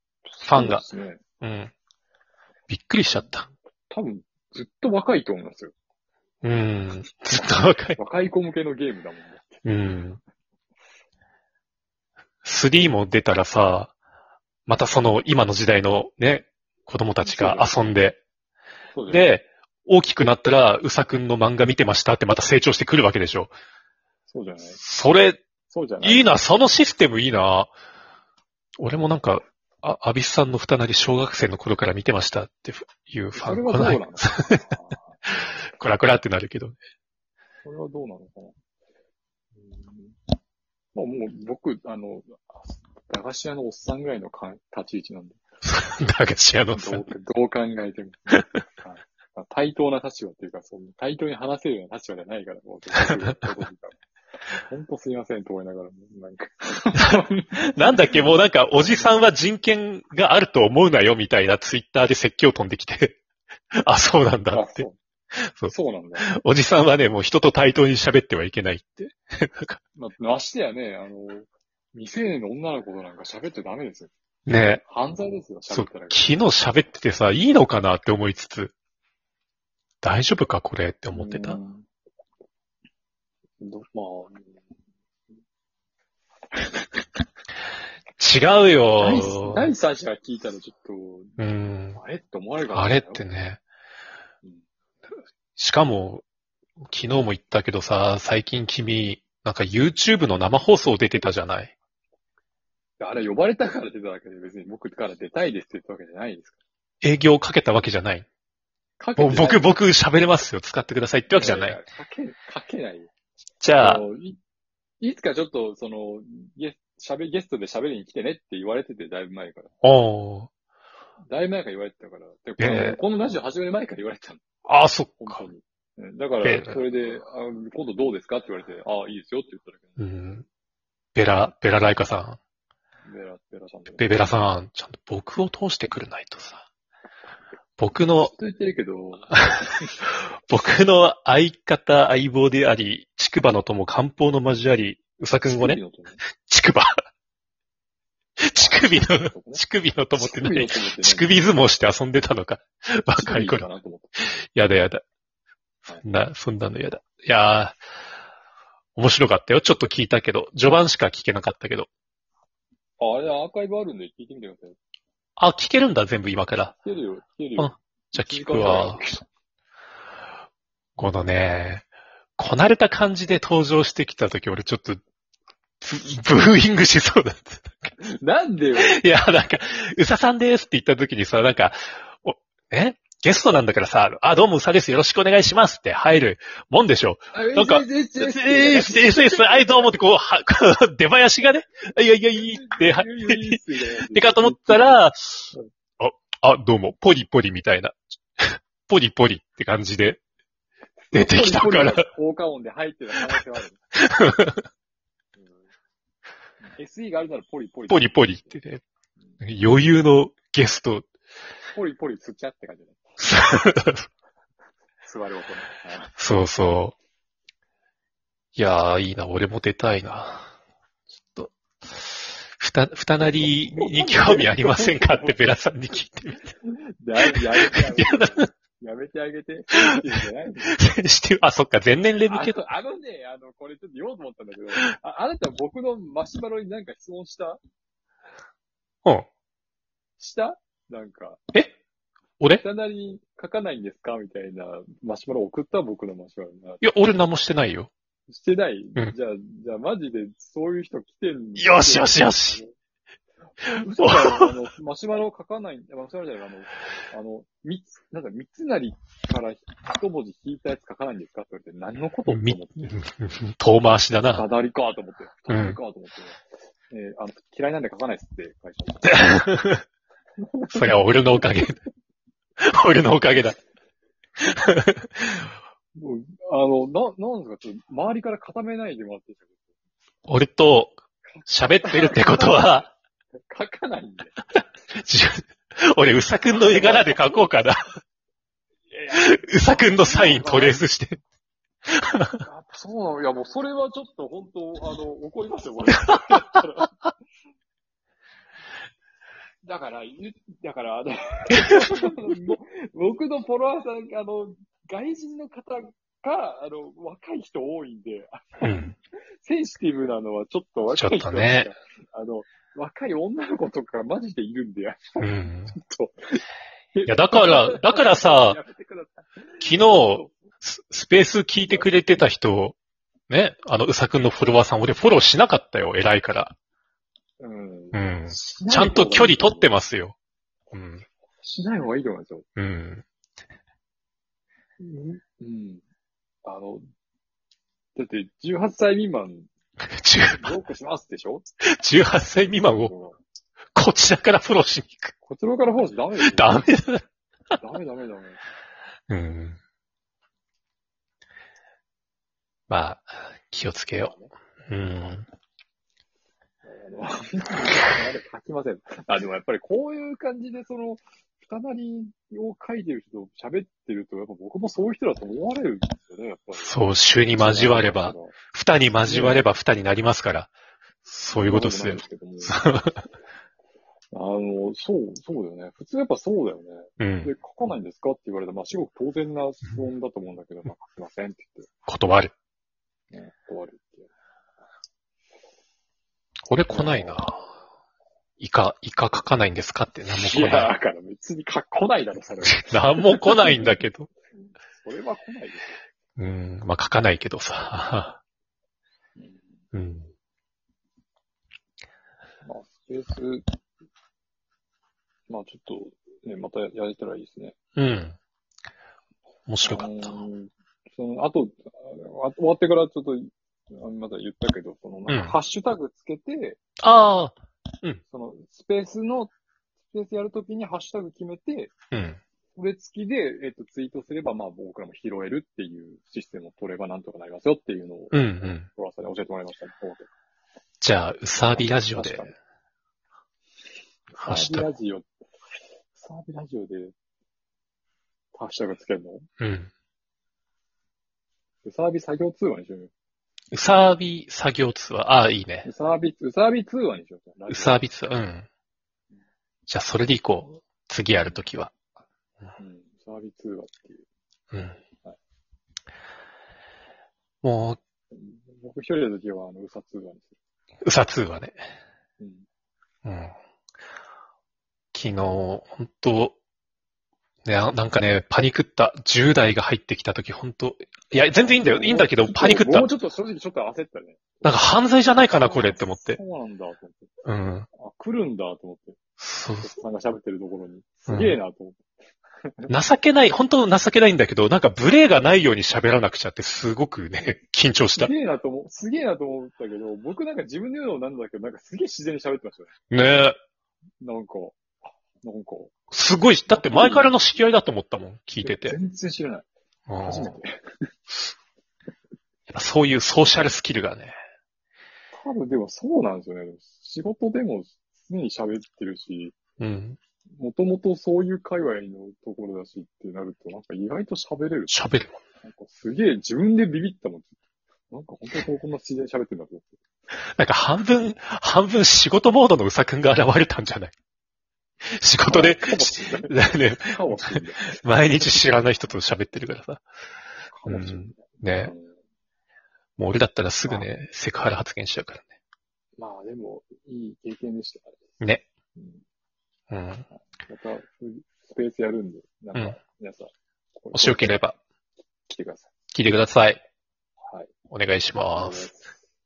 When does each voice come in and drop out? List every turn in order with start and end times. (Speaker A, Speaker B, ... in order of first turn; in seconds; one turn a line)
Speaker A: 0.3-1.2
Speaker B: 0.5-0.8
Speaker B: 1.4-1.7
Speaker B: 2.7-3.5
Speaker A: 3.9-5.7
Speaker B: 6.4-8.0
Speaker A: 8.0-9.7
Speaker B: 9.7-10.2
Speaker B: 12.4-13.9
Speaker B: 14.7-18.2
Speaker A: 17.2-17.9
Speaker A: 18.9-19.3
Speaker B: 19.1-23.5
Speaker A: 24.3-24.8
Speaker B: 24.8-25.4
Speaker A: 25.7-26.3
Speaker B: 26.0-27.7
Speaker B: 28.8-34.6
Speaker A: 33.3-35.2
Speaker B: 35.3-36.8
Speaker A: 37.6-38.5
Speaker A: 39.6-40.2
Speaker A: 40.9-45.4
Speaker B: 45.6-47.1
Speaker A: 46.7-54.0
Speaker B: 53.0-53.3
Speaker A: 54.5-59.2
Speaker B: 57.0-63.2
Speaker B: 63.8-69.8
Speaker A: 64.5-65.0
Speaker A: 65.7-66.3
Speaker A: 70.0-74.1
Speaker B: 74.5-74.8
Speaker A: 74.8-76.3
Speaker B: 75.7-78.7
Speaker B: 80.0-81.6
Speaker A: 81.1-81.9
Speaker A: 83.6-84.5
Speaker A: 86.5-87.0
Speaker B: 88.2-89.7
Speaker A: 89.0-91.4
Speaker B: 91.4-92.0
Speaker A: 92.0-93.2
Speaker B: 92.7-93.6
Speaker B: 95.6-96.2
Speaker B: 96.8-101.7
Speaker A: 103.0-106.6
Speaker B: 107.0-108.3
Speaker A: 109.0-109.7
Speaker B: 109.2-111.8
Speaker A: 111.3-113.1
Speaker B: 113.6-114.0
Speaker A: 113.8-114.4
Speaker A: 115.0-119.7
Speaker B: 119.8-120.5
Speaker A: 121.3-124.4
Speaker B: 122.6-123.0
Speaker B: 124.7-125.5
Speaker A: 125.2-130.0
Speaker B: 126.4-126.8
Speaker B: 130.0-130.4
Speaker B: 131.2-132.4
Speaker A: 133.1-134.2
Speaker B: 134.0-136.6
Speaker B: 137.8-138.3
Speaker A: 138.2-139.9
Speaker B: 140.5-145.8
Speaker A: 145.5-146.2
Speaker B: 146.4-146.9
Speaker B: 148.4-153.7
Speaker A: 148.6-149.6
Speaker A: 150.2-151.4
Speaker A: 153.1-154.2
Speaker B: 154.2-155.0
Speaker B: 156.0-157.8
Speaker B: 159.0-161.9
Speaker A: 163.0-164.8
Speaker B: 165.4-166.8
Speaker A: 166.8-169.2
Speaker B: 167.6-169.0
Speaker B: 171.0-171.9
Speaker B: 172.4-175.0
Speaker B: 175.8-177.9
Speaker A: 178.0-179.0
Speaker B: 178.8-200.2
Speaker A: 187.3-189.9
Speaker A: 192.3-195.0
Speaker A: 201.1-203.8
Speaker B: 201.1-202.1
Speaker B: 204.0-204.6
Speaker A: 206.6-208.6
Speaker B: 207.9-208.8
Speaker B: 209.4-211.1
Speaker A: 211.7-213.0
Speaker B: 213.2-214.1
Speaker A: 215.0-216.2
Speaker B: 216.2-216.9
Speaker B: 218.6-220.5
Speaker B: 221.2-226.5
Speaker A: 223.2-225.4
Speaker A: 226.7-230.8
Speaker B: 227.2-228.5
Speaker B: 230.7-232.6
Speaker A: 232.3-237.6
Speaker A: 240.2-241.4
Speaker A: 242.5-246.9
Speaker B: 246.8-247.9
Speaker A: 248.3-252.7
Speaker B: 251.6-252.6
Speaker B: 253.6-254.5
Speaker A: 253.6-262.9
Speaker B: 262.3-264.4
Speaker A: 264.3-269.2
Speaker B: 265.5-265.8
Speaker B: 269.0-269.8
Speaker A: 270.4-271.4
Speaker B: 270.7-271.8
Speaker B: 272.6-273.6
Speaker B: 274.4-275.5
Speaker A: 275.9-279.5
Speaker B: 280.3-282.9
Speaker A: 281.4-282.9
Speaker A: 283.5-284.3
Speaker B: 284.9-287.8
Speaker A: 286.5-287.4
Speaker A: 288.9-290.8
Speaker B: 289.1-291.2
Speaker B: 291.9-292.4
Speaker A: 292.4-296.9
Speaker B: 296.1-296.6
Speaker A: 299.6-308.7
Speaker B: 301.5-301.9
Speaker B: 308.6-309.0
Speaker A: 309.4-316.4
Speaker B: 310.9-311.7
Speaker B: 315.2-315.8
Speaker A: 316.9-320.3
Speaker B: 317.1-318.6
Speaker B: 319.6-322.8
Speaker A: 321.7-322.1
Speaker B: 323.3-326.5
Speaker A: 327.4-329.7
Speaker B: 327.9-330.1
Speaker B: 330.7-331.0
Speaker A: 331.4-332.4
Speaker B: 332.6-333.0
Speaker A: 334.8-335.8
Speaker A: 336.4-336.9
Speaker A: 338.0-339.5
Speaker B: 339.9-340.4
Speaker A: 340.3-341.5
Speaker B: 341.8-342.9
Speaker A: 342.6-343.2
Speaker B: 343.8-345.1
Speaker A: 345.2-346.7
Speaker B: 346.2-347.0
Speaker A: 347.6-348.4
Speaker B: 349.1-349.6
Speaker B: 352.7-354.1
Speaker A: 353.9-354.3
Speaker B: 354.7-355.3
Speaker A: 356.6-366.8
Speaker B: 366.6-370.5
Speaker A: 367.3-368.4
Speaker A: 369.1-369.4
Speaker B: 371.1-373.0
Speaker A: 371.4-372.6
Speaker A: 374.1-381.7
Speaker B: 377.0-377.3
Speaker B: 381.9-382.3
Speaker A: 383.1-384.1
Speaker B: 386.5-387.5
Speaker A: 386.7-387.4
Speaker B: 388.4-390.7
Speaker A: 390.1-393.5
Speaker B: 392.4-394.1
Speaker A: 394.7-395.8
Speaker B: 396.2-398.2
Speaker A: 399.2-399.5
Speaker B: 399.7-400.1
Speaker A: 402.4-403.5
Speaker A: 405.3-407.6
Speaker B: 407.8-408.2
Speaker B: 409.5-410.1
Speaker A: 409.6-416.6
Speaker B: 415.1-415.4
Speaker B: 416.8-418.0
Speaker A: 418.1-419.3
Speaker A: 419.9-421.7
Speaker B: 421.9-422.2
Speaker A: 422.6-430.1
Speaker B: 428.1-428.7
Speaker B: 430.8-432.3
Speaker A: 431.5-432.3
Speaker A: 434.1-435.1
Speaker B: 434.2-434.7
Speaker A: 435.9-436.9
Speaker A: 438.3-439.3
Speaker B: 439.4-439.7
Speaker A: 441.6-442.9
Speaker B: 443.5-445.7
Speaker A: 445.6-447.9
Speaker B: 447.5-448.5
Speaker B: 449.7-451.7
Speaker A: 452.6-454.1
Speaker B: 454.5-454.8
Speaker B: 457.4-457.8
Speaker A: 458.1-460.4
Speaker B: 460.9-461.6
Speaker A: 462.2-462.5
Speaker B: 463.1-463.3
Speaker B: 464.9-466.4
Speaker B: 467.4-472.9
Speaker A: 471.4-477.1
Speaker B: 474.4-476.2
Speaker B: 477.2-477.7
Speaker A: 477.8-479.0
Speaker B: 479.2-479.7
Speaker A: 479.6-481.8
Speaker B: 481.1-481.4
Speaker B: 482.7-488.1
Speaker A: 488.0-492.8
Speaker B: 492.9-493.4
Speaker A: 494.0-494.7
Speaker A: 495.2-495.7
Speaker B: 495.9-498.8
Speaker A: 496.5-497.1
Speaker A: 498.4-499.5
Speaker B: 499.9-500.4
Speaker A: 500.0-500.9
Speaker B: 502.5-504.2
Speaker A: 505.1-509.4
Speaker B: 509.6-510.0
Speaker A: 510.4-517.4
Speaker B: 514.7-515.1
Speaker A: 517.9-519.7
Speaker B: 520.4-523.9
Speaker B: 525.0-529.8
Speaker A: 525.3-528.3
Speaker A: 530.5-531.9
Speaker B: 530.7-531.7
Speaker B: 533.0-535.3
Speaker A: 536.0-538.0
Speaker B: 538.2-538.5
Speaker A: 538.8-539.0
Speaker B: 539.7-540.0
Speaker A: 540.4-544.5
Speaker B: 543.9-544.6
Speaker A: 545.3-545.7
Speaker B: 545.9-546.6
Speaker A: 547.2-547.5
Speaker B: 547.7-548.7
Speaker A: 548.3-548.9